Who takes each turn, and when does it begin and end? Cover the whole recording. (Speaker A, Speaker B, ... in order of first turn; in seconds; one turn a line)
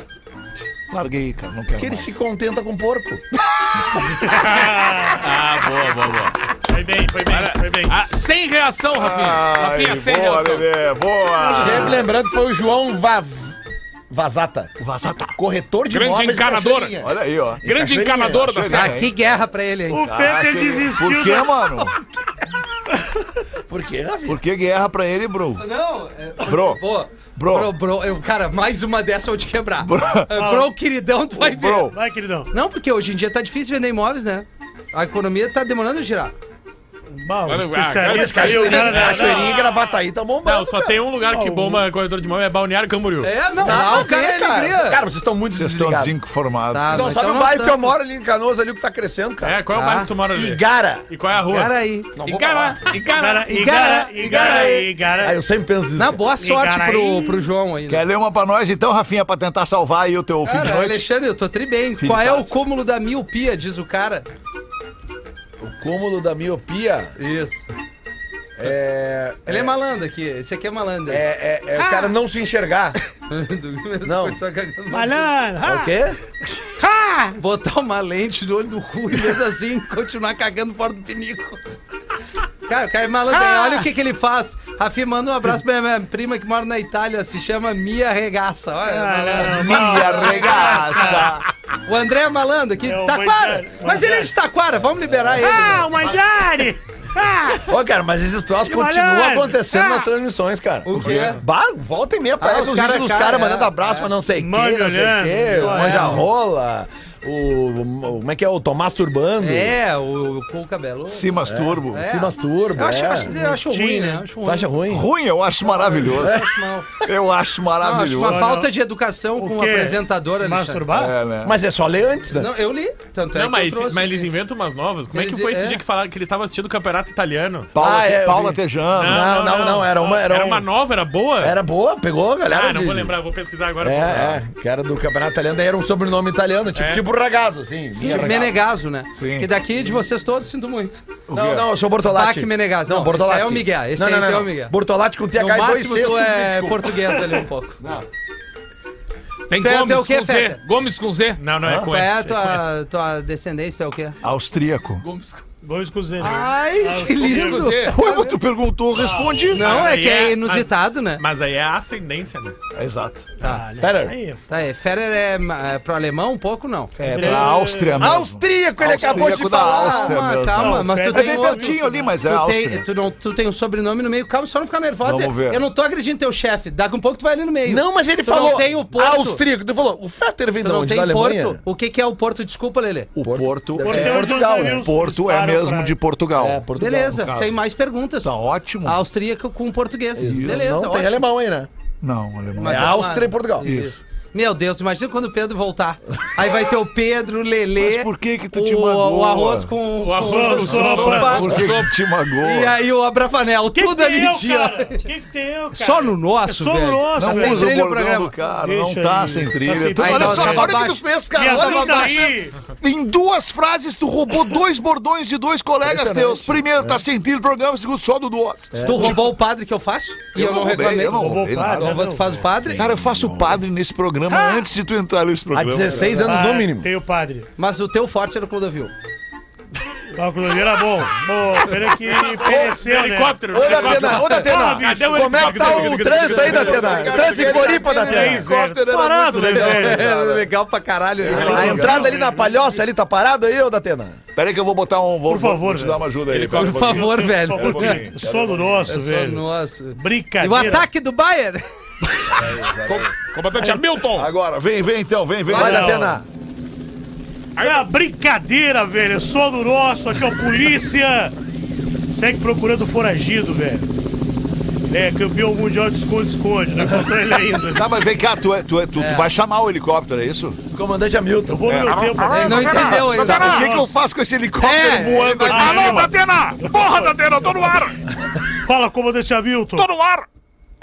Speaker A: 0.9-2.1
Speaker B: 1.8-3.2
Speaker C: 4.3-6.3
Speaker D: 4.4-5.2
Speaker E: 6.7-8.0
Speaker C: 7.3-10.7
Speaker A: 8.9-12.1
Speaker D: 11.3-12.0
Speaker B: 11.6-14.7
Speaker A: 14.8-15.4
Speaker B: 15.3-18.6
Speaker C: 15.9-16.9
Speaker A: 17.0-17.6
Speaker C: 17.6-19.0
Speaker A: 18.4-19.1
Speaker F: 18.7-20.0
Speaker D: 19.9-21.6
Speaker A: 19.9-21.9
Speaker F: 21.8-22.4
Speaker B: 23.7-24.4
Speaker A: 24.2-25.6
Speaker F: 25.6-31.9
Speaker A: 26.4-26.8
Speaker A: 27.3-27.7
Speaker A: 29.8-30.4
Speaker D: 30.3-30.7
Speaker A: 31.4-31.9
Speaker D: 31.8-32.5
Speaker F: 32.5-36.3
Speaker D: 37.1-39.9
Speaker C: 37.4-39.3
Speaker B: 38.1-41.0
Speaker E: 40.4-43.4
Speaker D: 41.2-41.9
Speaker F: 43.2-45.0
Speaker B: 43.6-46.1
Speaker A: 45.5-47.1
Speaker F: 46.7-47.9
Speaker B: 46.9-49.6
Speaker E: 49.4-51.7
Speaker F: 49.7-50.1
Speaker B: 50.3-51.1
Speaker F: 51.5-52.1
Speaker B: 52.1-52.8
Speaker C: 52.2-53.5
Speaker D: 53.1-55.4
Speaker F: 53.5-54.9
Speaker B: 55.2-56.2
Speaker F: 56.0-58.0
Speaker D: 56.3-57.5
Speaker A: 57.9-61.0
Speaker F: 60.4-64.3
Speaker A: 62.0-62.4
Speaker B: 65.6-67.1
Speaker F: 67.2-67.7
Speaker B: 68.6-69.7
Speaker F: 69.5-71.2
Speaker B: 71.1-73.0
Speaker F: 73.3-75.2
Speaker B: 74.0-74.4
Speaker D: 74.9-76.0
Speaker B: 75.6-76.2
Speaker D: 76.8-77.3
Speaker F: 77.4-81.6
Speaker F: 82.7-91.3
Speaker D: 83.3-83.9
Speaker D: 88.8-91.4
Speaker A: 89.5-91.4
Speaker F: 91.8-95.9
Speaker D: 92.8-94.4
Speaker D: 95.3-97.7
Speaker B: 95.4-95.7
Speaker B: 97.7-109.8
Speaker D: 98.6-100.1
Speaker F: 100.8-101.4
Speaker A: 100.9-101.3
Speaker F: 102.4-104.1
Speaker D: 104.3-106.2
Speaker F: 105.5-106.2
Speaker F: 109.4-111.3
Speaker A: 111.1-112.0
Speaker B: 111.4-113.3
Speaker F: 111.9-114.8
Speaker D: 113.2-114.3
Speaker B: 114.4-115.1
Speaker A: 114.9-116.5
Speaker F: 115.6-116.9
Speaker B: 116.0-117.1
Speaker A: 117.0-118.4
Speaker F: 117.8-120.9
Speaker D: 118.2-118.7
Speaker D: 119.3-121.2
Speaker A: 120.9-121.5
Speaker B: 121.4-122.5
Speaker F: 122.3-124.3
Speaker E: 123.3-127.7
Speaker F: 125.1-125.8
Speaker A: 127.7-129.2
Speaker B: 127.8-130.7
Speaker E: 129.0-131.6
Speaker B: 131.4-133.1
Speaker E: 132.5-134.4
Speaker B: 133.8-138.6
Speaker E: 136.7-137.0
Speaker F: 137.9-141.0
Speaker A: 138.0-138.3
Speaker A: 139.2-139.5
Speaker A: 141.3-141.7
Speaker B: 141.3-146.9
Speaker F: 142.0-144.7
Speaker F: 145.3-147.8
Speaker D: 147.1-147.4
Speaker B: 147.8-148.1
Speaker C: 149.5-151.4
Speaker F: 149.5-150.6
Speaker E: 151.4-152.7
Speaker B: 151.6-151.9
Speaker F: 151.8-154.2
Speaker A: 154.2-155.0
Speaker C: 155.0-155.4
Speaker D: 155.6-157.8
Speaker F: 156.2-158.4
Speaker C: 157.2-158.0
Speaker A: 157.8-159.7
Speaker D: 159.0-159.4
Speaker F: 159.5-161.2
Speaker E: 159.5-162.6
Speaker A: 162.7-163.3
Speaker D: 163.4-164.5
Speaker B: 163.8-164.2
Speaker F: 164.5-167.4
Speaker A: 167.0-172.9
Speaker D: 167.0-168.2
Speaker B: 168.0-170.2
Speaker F: 169.1-179.4
Speaker D: 170.4-172.2
Speaker A: 175.0-175.6
Speaker B: 177.7-181.6
Speaker F: 180.6-183.2
Speaker A: 183.2-187.6
Speaker B: 183.2-184.9
Speaker D: 183.8-185.9
Speaker B: 186.4-187.2
Speaker F: 186.7-188.3
Speaker A: 188.2-189.0
Speaker F: 188.8-191.2
Speaker B: 190.2-191.7
Speaker A: 190.2-190.7
Speaker A: 192.0-193.0
Speaker B: 192.6-193.7
Speaker F: 192.6-201.7
Speaker A: 193.6-193.9
Speaker A: 197.8-199.7
Speaker C: 200.1-201.9
Speaker D: 200.2-201.5
Speaker E: 200.2-201.2
Speaker A: 201.2-202.7
Speaker F: 202.3-204.9
Speaker D: 203.7-207.7
Speaker F: 205.7-208.3
Speaker A: 207.1-219.2
Speaker D: 208.4-212.6
Speaker F: 209.9-212.3
Speaker B: 215.8-217.0
Speaker B: 218.7-219.2
Speaker F: 218.8-222.9
Speaker A: 220.3-222.0
Speaker D: 221.1-222.5
Speaker B: 221.6-222.0
Speaker B: 222.5-223.6
Speaker A: 222.7-226.3
Speaker B: 225.5-226.9
Speaker D: 226.2-227.5
Speaker F: 227.6-228.9
Speaker D: 230.1-236.1
Speaker E: 232.1-237.1
Speaker B: 233.5-238.5
Speaker F: 234.2-234.6
Speaker C: 236.1-237.3
Speaker A: 236.2-240.5
Speaker D: 237.3-240.1
Speaker F: 239.5-242.0
Speaker A: 241.2-242.2
Speaker B: 241.2-244.2
Speaker D: 241.3-242.4
Speaker A: 244.3-248.9
Speaker D: 245.2-246.1
Speaker C: 246.3-246.7
Speaker F: 246.5-248.1
Speaker D: 246.8-250.9
Speaker F: 248.8-251.7
Speaker A: 252.3-253.1
Speaker C: 253.1-254.3
Speaker A: 254.1-256.2
Speaker B: 255.5-256.2
Speaker D: 255.5-256.2
Speaker C: 257.6-257.9
Speaker D: 257.6-261.3
Speaker D: 262.1-263.9
Speaker D: 264.9-267.9
Speaker A: 267.7-270.6
Speaker F: 269.0-269.3
Speaker B: 270.7-271.8
Speaker D: 271.5-273.9
Speaker A: 271.6-277.7
Speaker F: 272.3-273.6
Speaker B: 273.2-273.7
Speaker F: 274.6-276.1
Speaker D: 275.3-277.7
Speaker C: 275.6-277.9
Speaker D: 278.6-279.9
Speaker C: 279.8-280.2